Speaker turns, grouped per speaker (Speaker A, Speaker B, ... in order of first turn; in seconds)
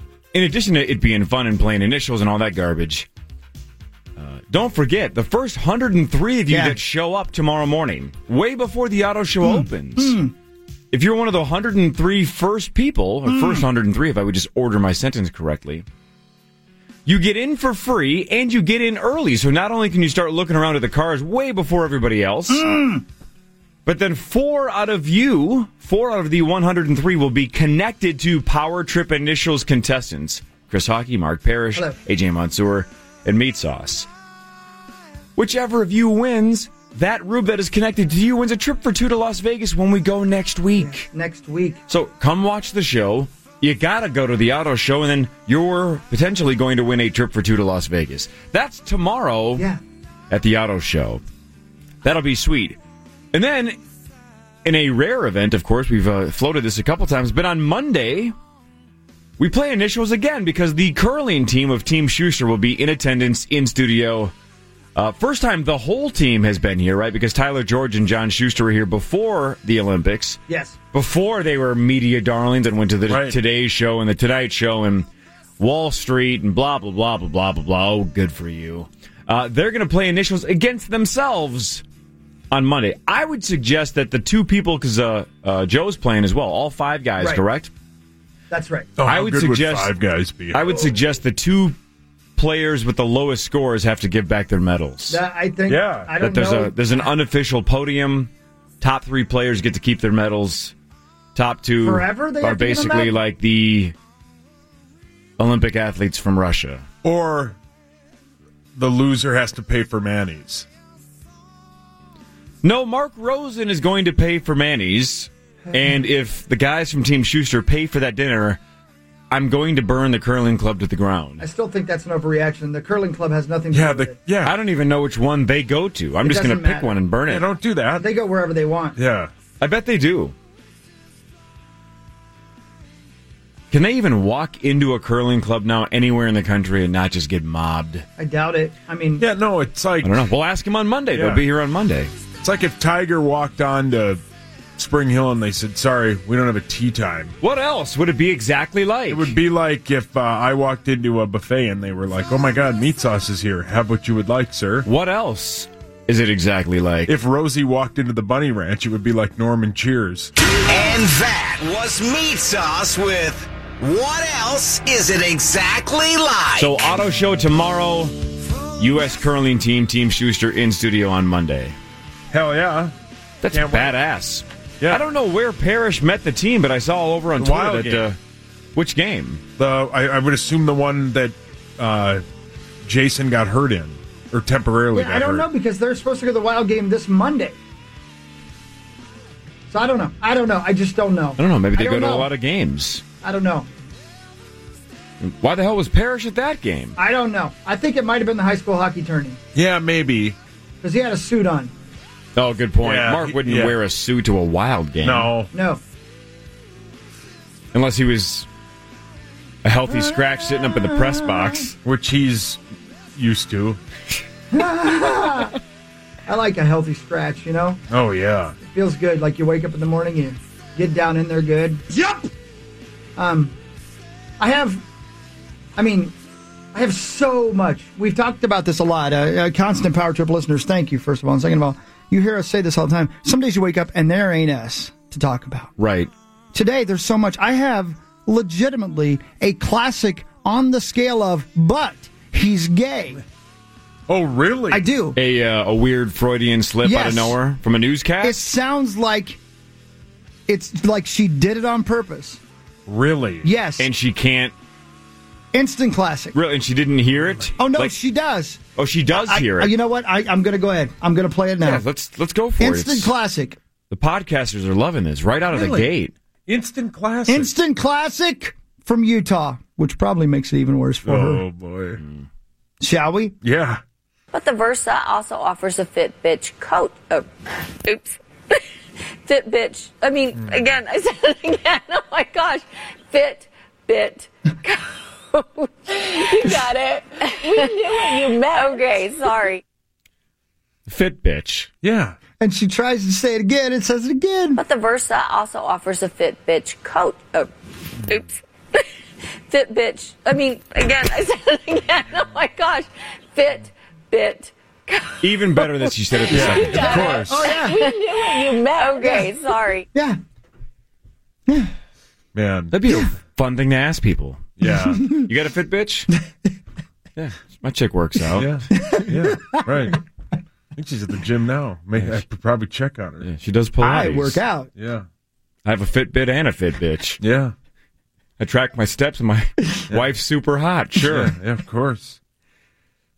Speaker A: 0.3-3.0, 4.2-10.2, 10.9-15.8, 17.1-22.8, 23.9-34.1, 35.4-41.0, 41.9-49.6, 50.3-51.2, 52.0-52.8, 53.3-53.8, 54.6-58.3, 59.4-64.3, 64.9-70.4, 70.9-75.1, 75.6-81.8, 82.5-87.7, 89.0-89.9, 90.5-91.8, 92.4-95.2, 96.2-98.3, 98.8-100.7, 101.3-103.9, 105.4-106.8, 112.6-118.6, 119.3-121.4, 124.4-127.5, 129.6-130.3, 133.7-138.0, 140.0-142.1, 147.4-149.3, 154.8-157.1, 166.6-171.7, 173.4-178.2, 178.7-179.4, 191.4-193.0, 195.2-197.0, 202.3-205.3, 207.7-208.5, 209.6-211.8, 235.8-236.1, 245.2-248.4, 253.8-254.5, 256.3-257.9, 258.8-259.7, 261.6-263.1, 263.9-266.1, 272.0-272.2, 290.9-291.7, 305.2-307.5, 312.7-314.5, 315.1-316.1, 317.1-318.6, 323.2-324.4, 325.6-327.2, 328.4-331.3
Speaker B: 6.5-6.8, 9.4-10.3, 13.3-13.6, 22.5-23.0, 40.8-41.8, 70.5-70.7, 88.5-88.9, 95.1-97.1, 101.8-103.2, 121.4-124.2, 126.2-127.0, 128.0-129.0, 138.2-139.2, 184.9-187.6, 189.7-192.3, 193.2-193.7, 196.9-199.4, 200.8-201.7, 205.5-205.8, 209.9-211.6, 214.5-215.5, 216.3-217.8, 218.6-221.9, 223.2-223.5, 224.4-224.8, 225.8-226.1, 226.7-235.7, 236.5-243.2, 244.7-245.2, 246.8-247.3, 248.2-249.4, 250.5-252.4, 253.4-253.9, 255.5-256.3, 257.6-258.6, 259.1-261.8, 262.6-263.6, 267.3-271.4, 272.8-273.3, 292.4-294.6, 306.8-308.0, 309.0-309.3, 309.9-310.2, 318.7-319.6, 323.8-324.7
Speaker C: 73.1-73.4, 89.0-90.9, 95.7-96.1, 107.0-107.5, 108.7-110.7, 123.7-124.5, 127.3-128.1, 128.9-129.3, 139.2-140.2, 141.1-141.4, 142.4-144.2, 144.8-147.3, 149.1-154.9, 157.1-160.3, 172.3-172.9, 173.5-173.9, 177.4-178.0, 179.6-182.2, 182.8-185.4, 199.5-200.3, 202.8-203.7, 205.0-205.5, 211.8-212.6, 213.1-213.8, 217.9-218.6, 244.1-244.8, 252.9-253.5, 265.5-265.9, 266.5-267.5, 271.0-272.0, 273.4-273.8, 280.3-280.7, 291.8-292.1, 306.3-307.2, 312.3-312.7, 314.6-315.1, 318.4-320.0, 320.8-323.3, 324.7-325.1, 327.2-327.5, 330.9-332.2
Speaker D: 160.7-166.7
Speaker E: 274.3-277.3, 277.8-278.6, 279.2-289.6, 294.5-297.5, 298.0-298.8, 299.5-309.9